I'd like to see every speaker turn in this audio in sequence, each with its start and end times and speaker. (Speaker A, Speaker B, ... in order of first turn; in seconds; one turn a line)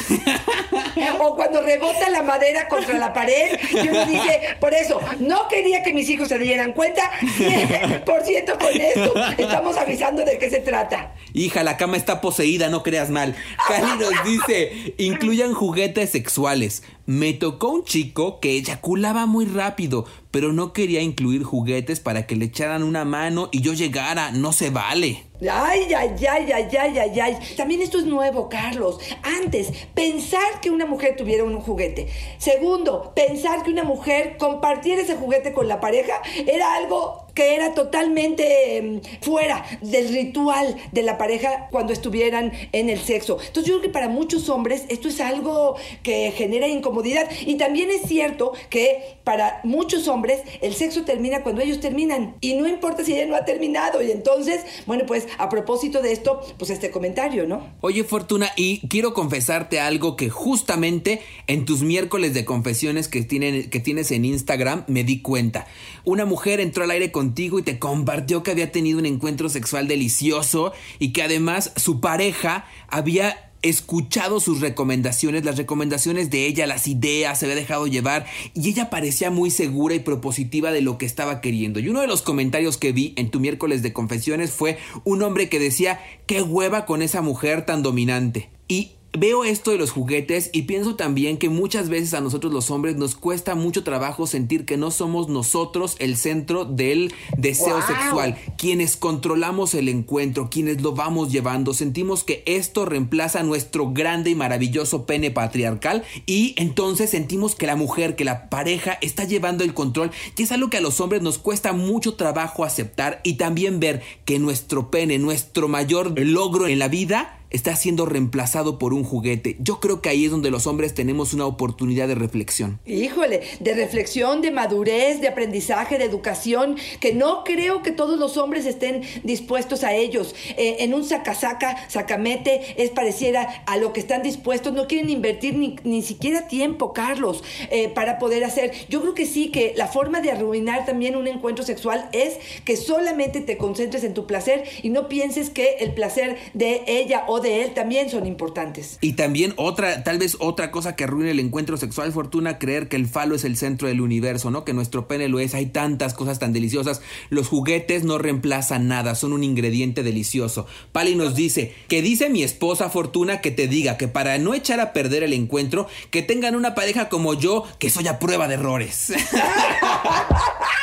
Speaker A: 0.1-0.9
Speaker B: 0.9-11.1
Speaker A: 3.8-4.1
Speaker A: 7.7-8.0
Speaker A: 9.0-9.3
Speaker A: 11.3-25.2
Speaker B: 25.4-57.7
Speaker A: 57.8-122.8
Speaker B: 97.6-98.3
Speaker B: 122.9-149.0
Speaker A: 149.0-170.2
Speaker B: 169.4-170.6